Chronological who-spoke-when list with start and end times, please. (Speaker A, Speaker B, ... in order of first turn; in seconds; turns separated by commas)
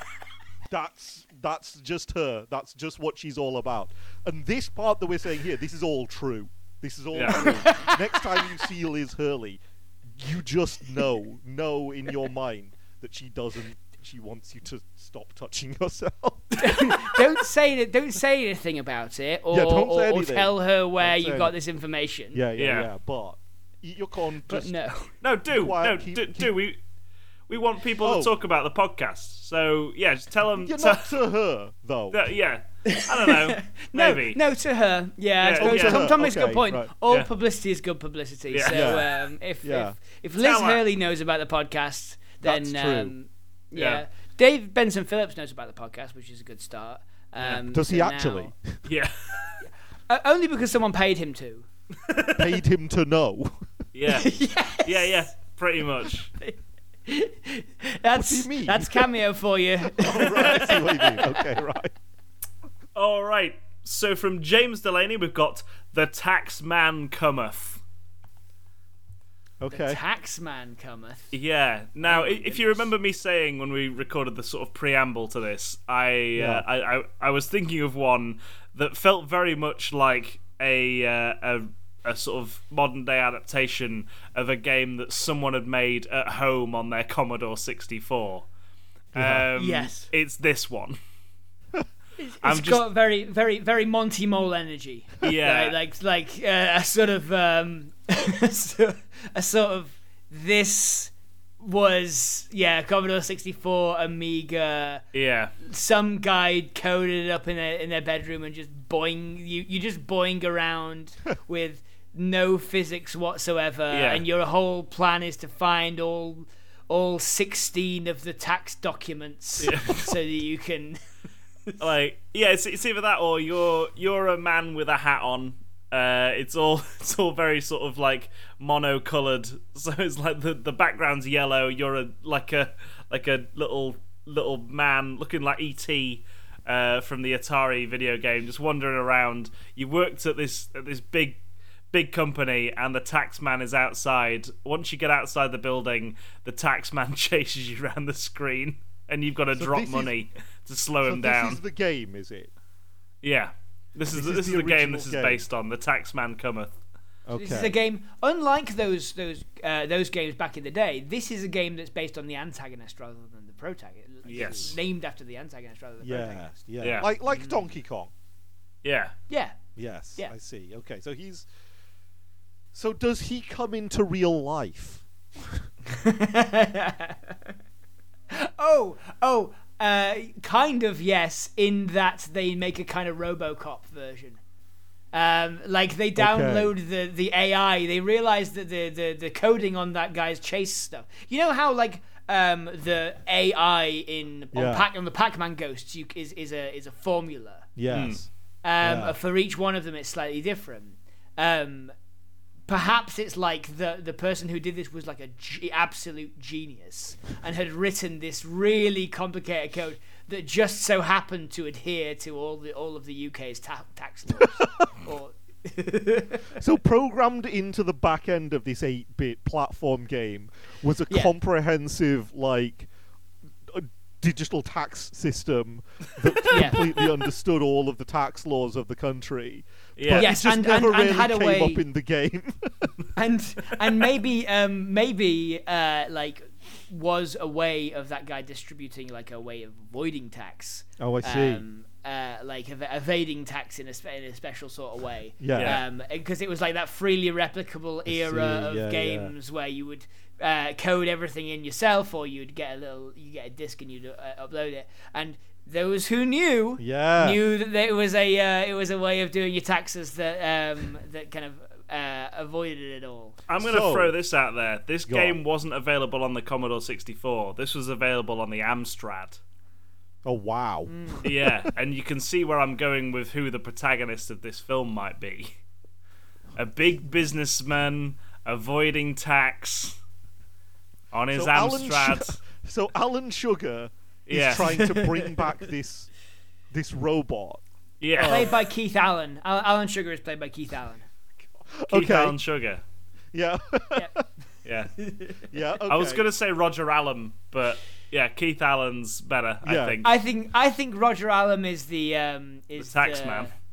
Speaker A: 0.7-9.6, Speaker B: 7.1-7.6, Speaker C: 7.3-8.0, Speaker A: 10.2-17.2, Speaker C: 16.6-22.4, Speaker A: 19.5-21.5, Speaker A: 22.3-24.7, Speaker B: 22.6-22.9, Speaker C: 24.5-25.1, Speaker B: 25.2-26.8, Speaker A: 25.5-26.5, Speaker B: 27.5-31.1, Speaker A: 28.0-28.3, Speaker A: 30.6-32.3, Speaker B: 32.1-34.4, Speaker C: 32.9-48.5, Speaker B: 35.4-36.2, Speaker A: 35.6-36.9, Speaker B: 38.5-39.0, Speaker A: 38.7-40.0, Speaker B: 40.4-40.8, Speaker A: 42.4-43.1, Speaker B: 43.8-44.0, Speaker A: 47.7-48.8, Speaker B: 48.9-49.5, Speaker C: 50.1-51.7, Speaker B: 52.1-52.4, Speaker A: 52.3-53.7, Speaker B: 53.9-56.3, Speaker C: 54.1-55.3, Speaker C: 56.4-61.5, Speaker A: 58.1-59.1, Speaker A: 60.0-62.0, Speaker B: 63.0-67.8, Speaker A: 69.6-70.0, Speaker C: 69.7-71.3, Speaker B: 71.3-88.5, Speaker C: 72.0-72.9, Speaker A: 76.3-76.7, Speaker A: 89.1-89.5, Speaker B: 89.1-91.0, Speaker C: 89.6-90.1, Speaker C: 92.2-105.0, Speaker B: 92.4-92.8, Speaker B: 95.2-95.8, Speaker B: 105.1-105.5, Speaker C: 105.6-121.0, Speaker B: 113.9-114.2, Speaker B: 119.6-120.2, Speaker B: 121.8-141.4, Speaker B: 141.9-151.6, Speaker A: 149.6-150.2, Speaker A: 151.1-152.5, Speaker B: 153.2-156.8, Speaker A: 154.1-155.4, Speaker A: 157.3-157.7, Speaker C: 157.3-166.6, Speaker B: 164.3-164.8, Speaker A: 166.0-168.1, Speaker B: 166.8-167.1, Speaker C: 167.3-167.7, Speaker B: 168.8-169.2, Speaker C: 169.3-169.6, Speaker A: 169.8-171.5, Speaker A: 172.7-175.7, Speaker C: 175.9-177.4, Speaker C: 178.3-184.4, Speaker C: 185.1-197.7, Speaker A: 186.2-186.7, Speaker A: 194.5-194.9, Speaker A: 197.8-198.3, Speaker B: 197.9-198.2, Speaker C: 198.6-201.9, Speaker A: 198.8-199.2, Speaker C: 202.7-216.5, Speaker A: 214.4-214.9, Speaker A: 216.6-222.9, Speaker A: 223.7-233.0, Speaker C: 226.5-227.0, Speaker B: 230.0-230.3, Speaker C: 230.1-231.8, Speaker C: 233.2-263.4, Speaker A: 241.0-241.6, Speaker A: 245.4-245.8, Speaker B: 245.6-245.8, Speaker A: 248.1-249.3, Speaker A: 256.8-257.4, Speaker B: 263.5-269.4, Speaker A: 263.6-264.1, Speaker A: 265.1-265.4, Speaker A: 270.2-271.7, Speaker C: 270.9-271.2, Speaker B: 271.2-275.5, Speaker B: 276.6-280.0, Speaker B: 281.1-282.4, Speaker A: 281.3-286.1, Speaker B: 284.3-285.1, Speaker A: 286.7-287.6, Speaker B: 288.0-288.5, Speaker A: 288.1-288.5, Speaker C: 288.2-291.1, Speaker A: 291.7-292.4, Speaker B: 291.9-292.8, Speaker A: 293.3-294.2, Speaker B: 294.6-295.0, Speaker C: 295.1-295.4, Speaker A: 295.5-296.2, Speaker B: 295.9-300.1, Speaker A: 299.6-300.1, Speaker C: 300.0-303.5, Speaker B: 302.8-303.5